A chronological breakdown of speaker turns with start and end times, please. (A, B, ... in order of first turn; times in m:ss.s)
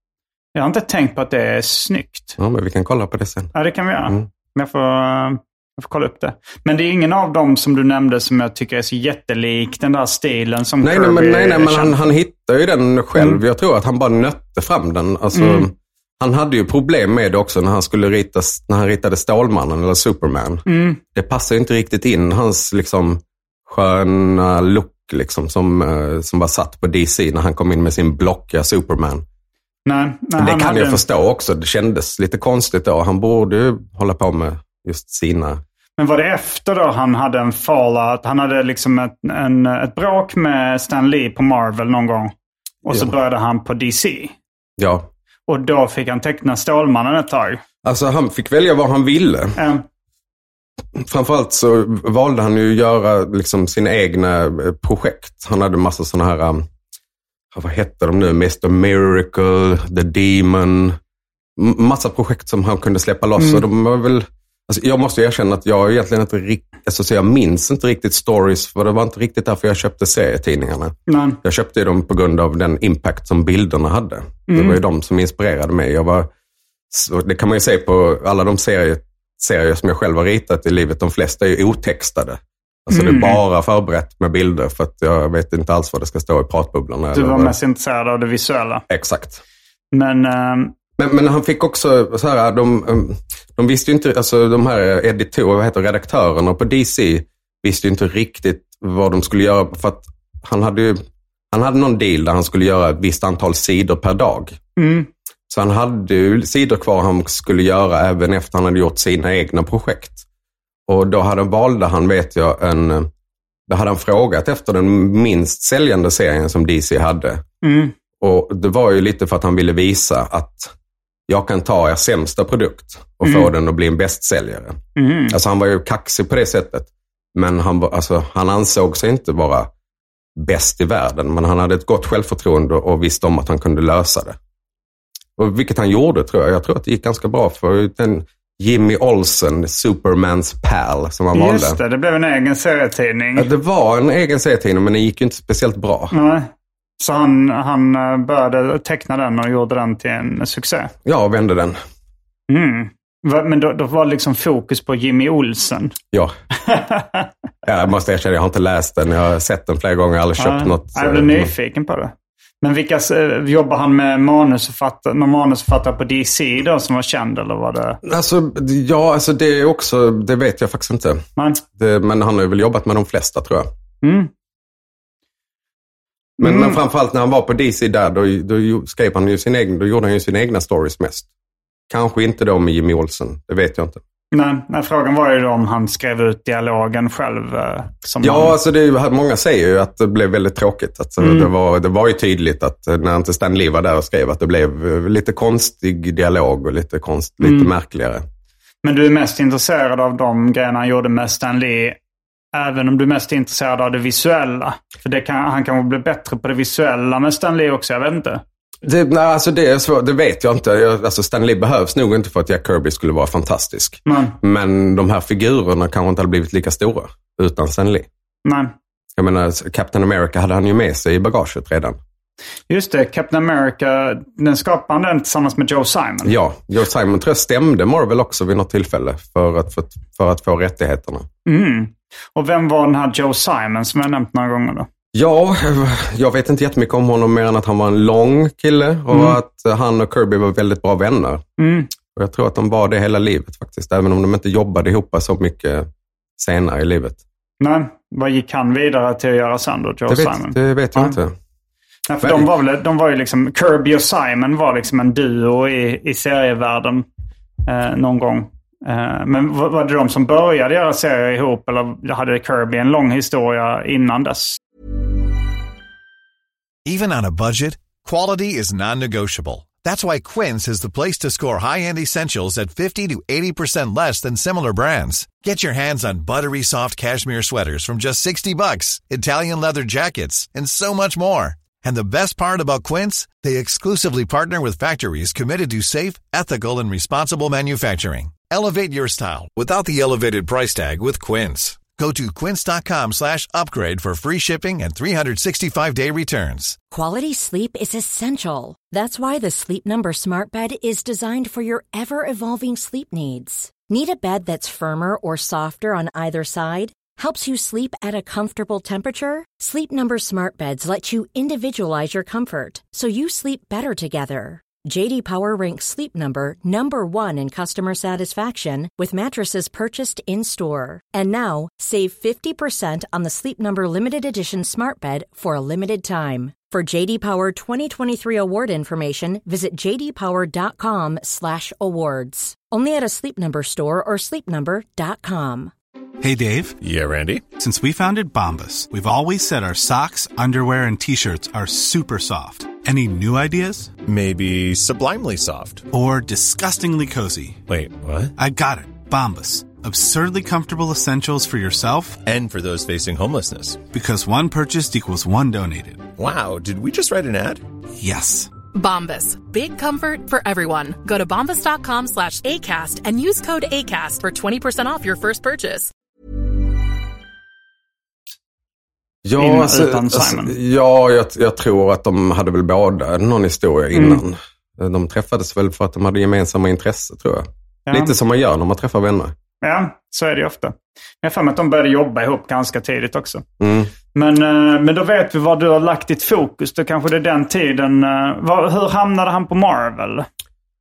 0:00.6-0:02.4 A
0:02.4-0:03.5 B
0:03.5-0:12.0 A
0:10.8-0:29.2 B
0:15.3-0:15.7 A
0:20.7-0:21.0 A
0:29.9-0:31.0 A
0:30.4-0:35.6 B
0:36.0-0:42.3 A
0:42.8-0:44.4 A
0:44.8-0:45.1 B
0:45.5-0:47.6 A
0:47.8-0:49.6 B
0:49.6-0:49.8 A
0:51.0-0:56.7 B
0:57.5-1:01.0 B
1:01.6-1:16.3 B
1:11.1-1:11.4 A
1:14.5-1:14.8 A
1:16.9-1:27.6 B
1:22.9-1:23.4 A
1:27.1-1:28.8 A
1:28.9-1:29.4 B
1:29.9-1:30.7 A
1:31.0-1:41.0 B
1:41.5-1:44.6 B
1:44.8-1:45.1 A
1:45.5-1:50.2 B
1:50.9-1:53.1 B
1:53.7-1:57.4 B
1:57.6-1:57.9 A
1:58.2-2:00.7 B
2:01.3-2:04.8 B
2:03.2-2:03.5 A
2:05.0-2:05.4 A
2:05.3-2:09.7 B
2:10.4-2:14.4 B
2:15.4-2:21.8 B
2:21.3-2:23.5 A
2:23.4-2:26.1 B
2:26.1-2:30.9 A
2:31.0-2:31.8 B
2:32.5-2:36.0 A
2:36.6-2:37.3 A
2:37.6-2:41.5 B
2:40.4-2:48.0 A
2:48.0-2:53.7 B
2:54.0-2:54.3 A
2:56.4-2:56.8 A
2:56.4-3:01.3 B
3:01.9-3:04.0 B
3:04.3-3:08.6 A
3:08.2-3:18.2 B
3:11.2-3:11.5 A
3:17.4-3:17.7 A
3:18.8-3:22.0 A
3:22.5-3:28.4 A
3:28.8-3:38.1 B
3:34.1-3:34.4 A
3:38.4-3:38.7 A
3:39.2-3:42.0 B
3:42.7-3:46.4 A
3:46.2-3:51.3 B
3:51.5-3:54.9 A
3:55.1-4:01.4 B
3:59.1-3:59.4 A
4:01.6-4:01.9 A
4:02.1-4:07.2 B
4:07.6-4:11.2 A
4:10.1-4:11.4 B
4:12.1-4:17.0 A
4:12.2-4:12.5 B
4:17.7-4:24.6 A
4:26.8-4:56.8 C
4:56.9-5:35.7 D
5:36.2-5:36.8 E
5:36.8-5:37.5 F
5:37.5-5:43.9 E
5:44.0-5:45.9 F
5:45.9-5:47.6 E
5:47.7-5:48.3 F
5:48.4-5:52.2 E
5:52.2-5:53.8 F
5:53.9-5:56.1 E
5:56.2-5:57.6 F
5:58.0-5:58.5 E
5:58.7-6:05.9 G
6:09.2-6:19.4 B
6:09.4-6:10.6 A
6:13.9-6:14.2 A
6:17.9-6:18.1 A
6:19.6-6:23.4 A
6:23.6-6:23.9 B
6:24.1-6:30.3 A